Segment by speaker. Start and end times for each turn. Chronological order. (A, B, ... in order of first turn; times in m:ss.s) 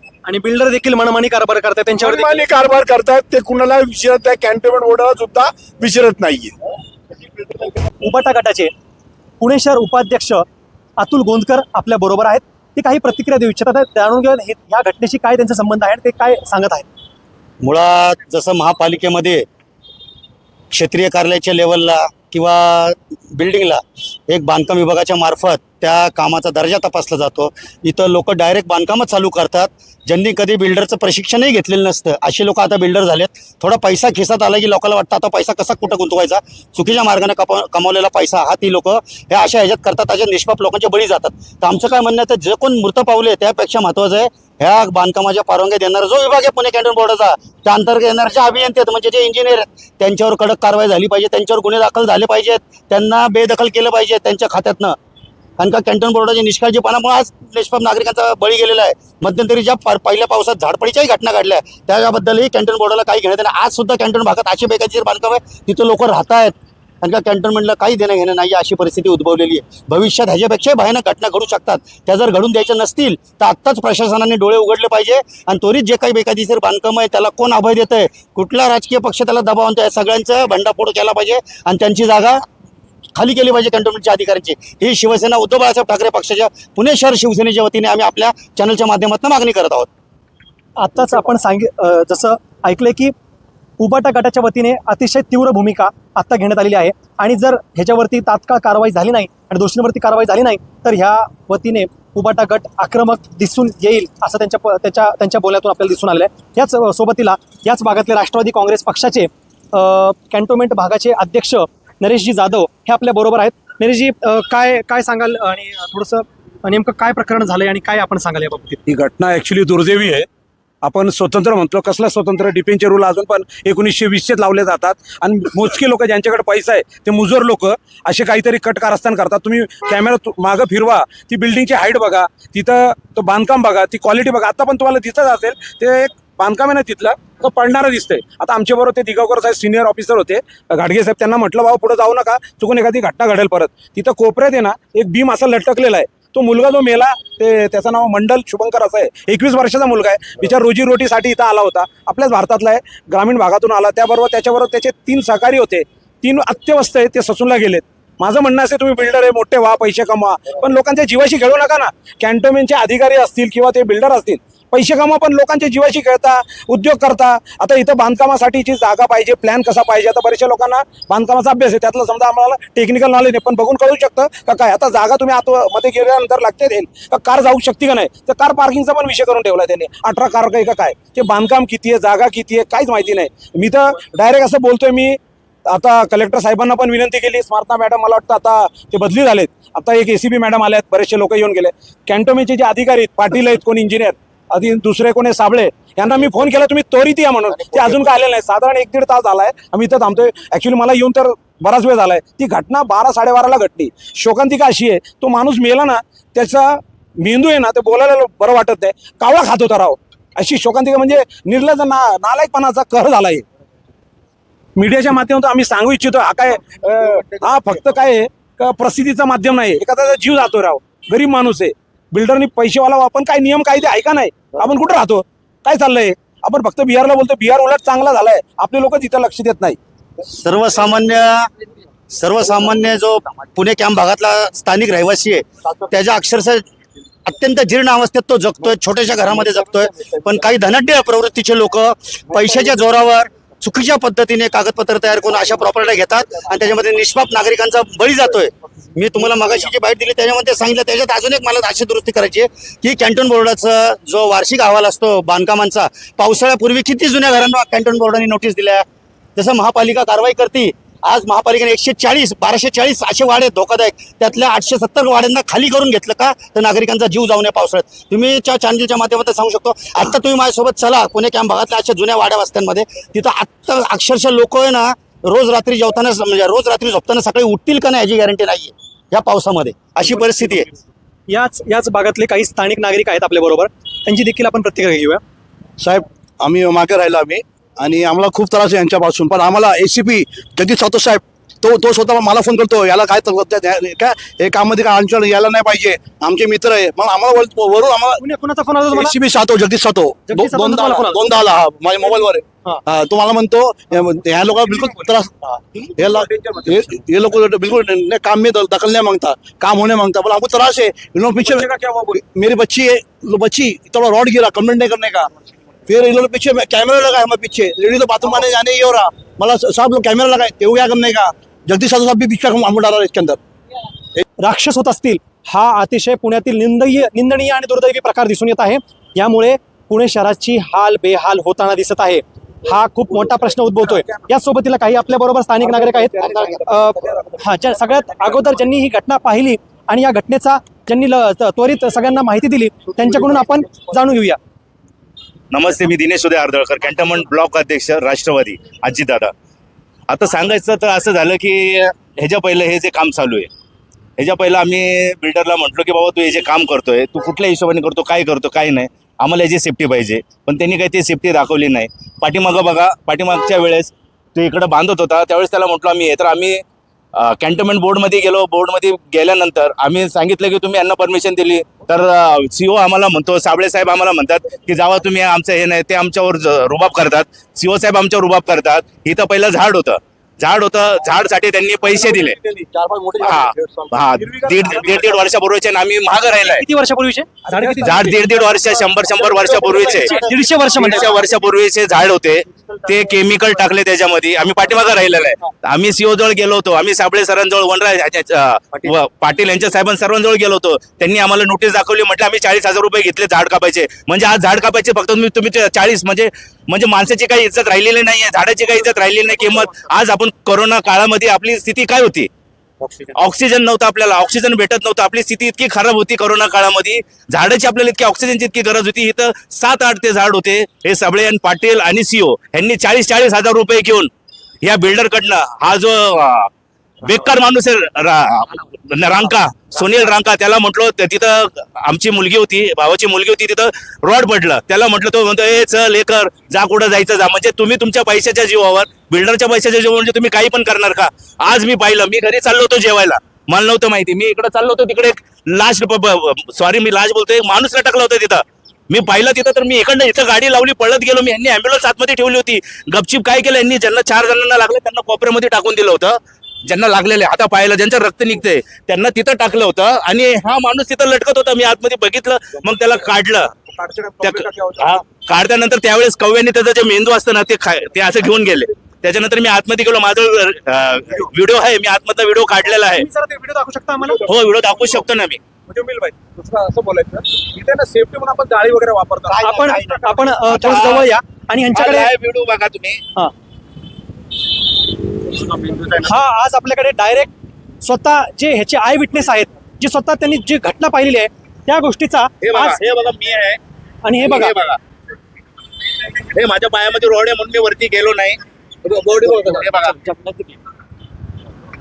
0:00.2-0:02.4 A
0:02.0-0:06.5 B
0:08.0-0:08.7 A
0:09.4-0:10.4 A
0:11.0-0:16.8 A
0:17.6-0:19.4 C
0:20.7-0:55.0 C
0:55.6-1:22.4 C
1:23.2-1:29.9 C
1:30.8-1:33.1 A
1:33.8-1:58.8 A
1:58.9-2:00.3 D
2:00.8-3:33.4 D
3:34.8-3:49.8 D
3:50.3-3:51.5 C
3:52.1-3:56.6 C
3:57.2-4:40.7 C
4:41.3-4:45.2 A
4:45.8-4:58.2 E
4:58.2-4:59.1 A
4:58.9-5:15.3 E
5:00.3-5:01.2 A
5:04.7-5:05.0 D
5:05.8-5:06.9 D
5:11.4-5:12.2 D
5:15.9-5:23.4 E
5:24.4-5:44.4 A
5:45.5-5:49.3 F
5:50.1-5:53.5 F
5:54.2-6:06.6 F
6:07.1-6:22.4 F
6:22.0-6:25.2 E
6:23.2-6:26.6 F
6:26.5-6:28.0 A
6:27.5-6:28.8 D
6:27.8-6:30.1 F
6:29.7-6:31.1 A
6:30.7-6:52.3 F
6:53.1-7:04.1 F
7:04.6-7:06.5 F
7:07.0-7:43.5 F
7:43.8-7:44.8 D
7:44.2-7:53.1 F
7:52.9-7:54.2 A
7:54.0-7:54.4 D
7:54.2-7:55.4 F
7:55.7-8:00.7 D
7:59.3-8:02.1 A
8:00.5-8:01.1 F
8:01.7-8:03.0 F
8:06.0-8:07.3 A
8:07.8-8:12.8 A
8:12.4-8:13.6 F
8:14.0-8:14.6 A
8:14.2-8:14.8 F
8:16.3-8:20.0 F